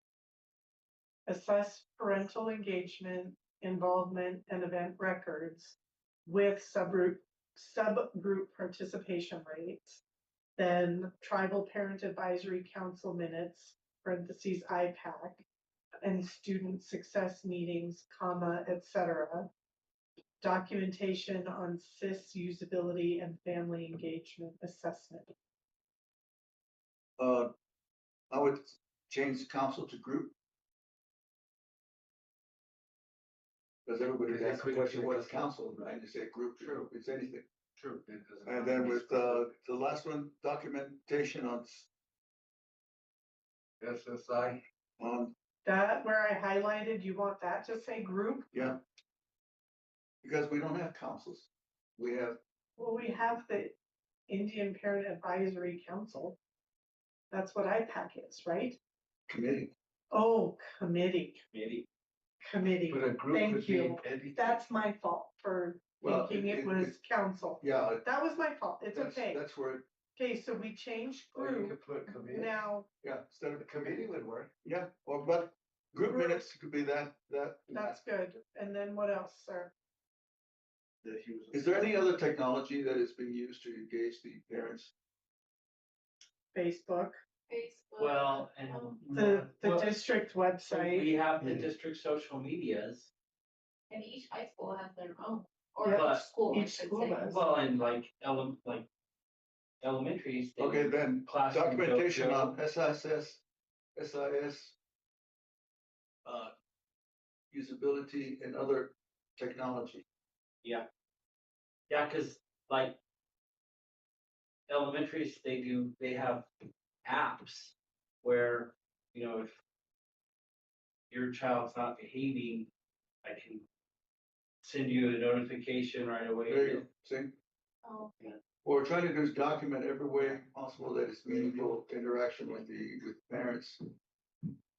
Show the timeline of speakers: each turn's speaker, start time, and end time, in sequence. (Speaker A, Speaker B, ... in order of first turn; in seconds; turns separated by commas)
Speaker A: 1.2-10.0, Speaker A: 10.6-15.4, Speaker A: 16.0-19.5, Speaker A: 20.4-25.3, Speaker B: 27.2-27.5, Speaker B: 28.3-30.3, Speaker B: 33.9-37.4, Speaker C: 34.2-35.5, Speaker C: 38.0-39.5, Speaker B: 38.4-41.9, Speaker C: 43.8-44.6, Speaker B: 45.0-45.3, Speaker A: 45.6-48.5, Speaker B: 48.5-48.8, Speaker B: 50.2-52.4, Speaker A: 52.8-53.7, Speaker A: 54.3-56.4, Speaker A: 57.3-58.8, Speaker B: 59.3-59.7, Speaker A: 60.1-61.4, Speaker D: 61.5-61.8, Speaker A: 62.4-69.4, Speaker C: 62.9-64.6, Speaker B: 66.0-66.9, Speaker B: 67.6-68.0, Speaker B: 68.9-69.8, Speaker A: 70.2-72.9, Speaker C: 71.3-72.5, Speaker B: 73.0-73.8, Speaker C: 73.6-74.5, Speaker B: 74.6-78.0, Speaker A: 76.0-76.5, Speaker A: 77.7-79.7, Speaker C: 81.0-82.1, Speaker B: 81.5-84.9, Speaker A: 86.5-87.2, Speaker E: 87.5-89.0, Speaker D: 88.0-90.0, Speaker A: 89.1-91.1, Speaker D: 90.7-93.1, Speaker C: 91.4-91.7, Speaker E: 93.9-97.5, Speaker A: 95.8-97.4, Speaker D: 95.9-96.3, Speaker D: 97.2-98.8, Speaker D: 99.8-102.5, Speaker B: 100.6-103.4, Speaker B: 104.0-104.7, Speaker B: 106.2-106.5, Speaker B: 107.5-110.0, Speaker D: 111.9-113.0, Speaker D: 114.7-116.5, Speaker D: 117.0-119.5, Speaker D: 121.1-122.7, Speaker D: 123.2-123.6, Speaker D: 124.6-126.9, Speaker B: 126.5-127.3, Speaker E: 127.8-128.3, Speaker B: 128.6-133.8